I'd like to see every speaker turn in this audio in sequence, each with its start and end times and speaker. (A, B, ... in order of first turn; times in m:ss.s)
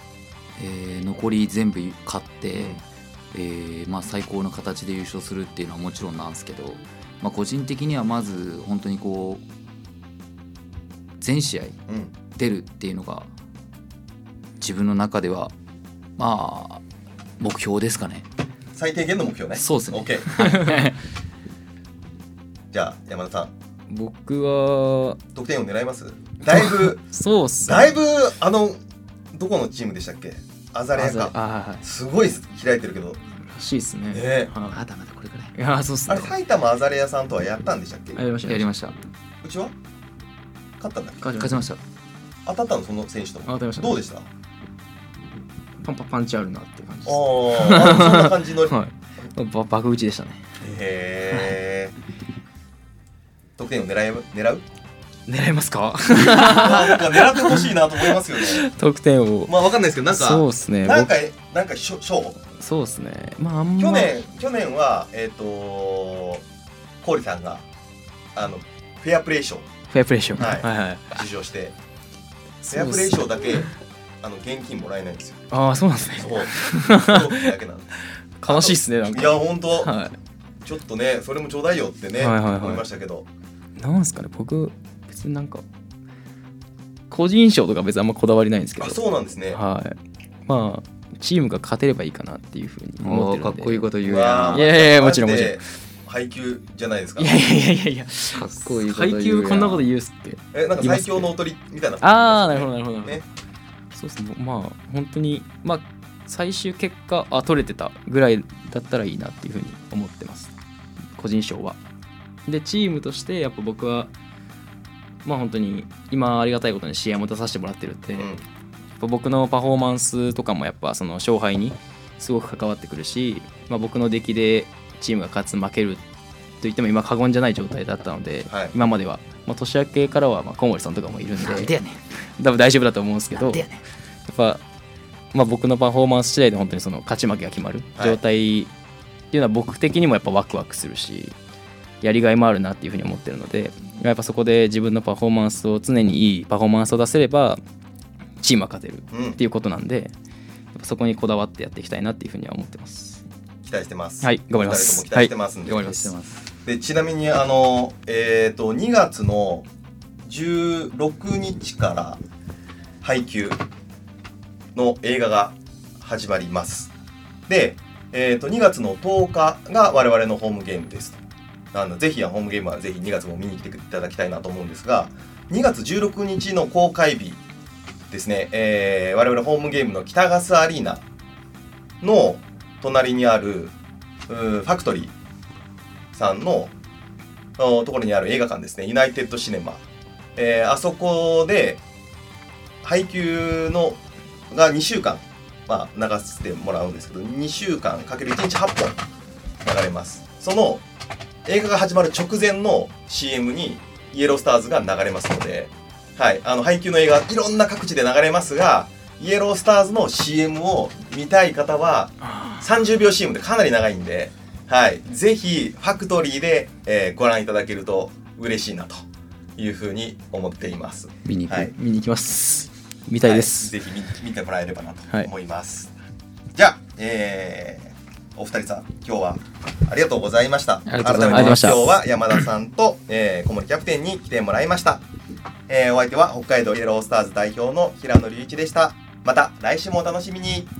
0:00.6-0:02.8 A
0:02.5-0:02.8 B
0:03.3-0:09.4 A
0:11.2-0:11.8 A
0:11.9-0:12.1 B
0:12.3-0:13.3 A
0:14.6-0:15.5 A
0:16.2-0:16.8 A
0:17.4-0:18.3 A
0:18.8-0:20.4 B
0:19.6-0:21.0 A
0:20.4-0:20.8 C
0:22.7-0:23.5 B
0:23.9-0:25.2 C
0:25.3-0:27.0 B
0:26.5-0:28.0 C
0:27.6-0:28.8 B
0:29.3-0:33.2 B
0:30.9-0:31.8 C
0:33.5-0:34.8 C
0:34.1-0:34.5 B
0:34.7-0:35.5 A
0:35.6-0:36.3 C
0:36.1-0:38.2 B
0:38.2-0:38.7 C
0:38.4-0:38.9 A
0:39.4-0:39.7 B
0:40.8-0:41.3 B
0:41.2-0:41.6 C
0:41.4-0:41.8 A
0:42.4-0:44.3 B
0:43.5-0:44.0 C
0:45.8-0:50.4 C
0:47.0-0:48.8 B
0:50.6-0:51.9 B
0:53.6-0:54.6 B
0:55.3-1:01.1 C
0:56.3-0:58.7 B
0:59.5-1:02.4 B
1:02.6-1:04.2 C
1:03.8-1:06.4 B
1:07.0-1:07.6 B
1:08.3-1:09.7 B
1:09.9-1:11.2 C
1:10.4-1:11.7 B
1:12.6-1:13.7 B
1:12.7-1:13.6 C
1:14.2-1:15.4 B
1:15.5-1:17.5 C
1:16.2-1:17.9 B
1:18.4-1:20.1 C
1:18.4-1:19.9 B
1:20.6-1:23.2 B
1:22.2-1:22.8 C
1:23.8-1:25.6 C
1:27.1-1:29.0 C
1:28.8-1:29.6 B
1:29.5-1:33.8 C
1:33.0-1:34.7 A
1:34.0-1:37.3 B
1:34.5-1:35.6 C
1:37.2-1:41.4 C
1:38.3-1:39.9 A
1:40.5-1:43.2 B
1:42.0-1:43.2 C
1:43.9-1:50.5 C
1:51.2-1:51.8 C
1:52.4-1:54.1 C
1:55.2-1:58.3 C
1:58.1-1:58.4 B
1:59.0-2:06.0 C
2:06.6-2:11.8 C
2:08.5-2:08.8 B
2:11.4-2:12.0 A
2:12.4-2:13.6 C
2:13.3-2:13.8 A
2:14.3-2:14.6 C
2:15.3-2:18.7 C
2:19.3-2:21.3 C
2:22.0-2:27.6 C
2:28.4-2:30.1 C
2:29.1-2:29.4 B
2:30.7-2:33.2 C
2:33.6-2:36.0 B
2:34.2-2:36.1 C
2:35.7-2:36.5 A
2:36.6-2:39.6 B
2:40.2-2:42.2 B
2:43.0-2:43.6 B
2:44.7-2:46.9 B
2:47.5-2:57.4 B
2:58.1-3:01.0 B
3:02.0-3:03.7 B
3:04.3-3:05.1 B
3:06.1-3:06.7 B
3:07.6-3:09.8 B
3:10.4-3:11.8 B
3:12.8-3:19.0 B
3:19.6-3:20.8 B
3:21.4-3:39.0 B
3:32.3-3:32.6 C
3:39.6-3:41.7 B
3:41.2-3:41.7 A
3:41.7-3:43.7 C
3:43.2-3:45.9 B
3:46.5-3:55.0 B
3:50.8-3:51.9 A
3:51.1-3:52.0 C
3:55.7-4:00.7 B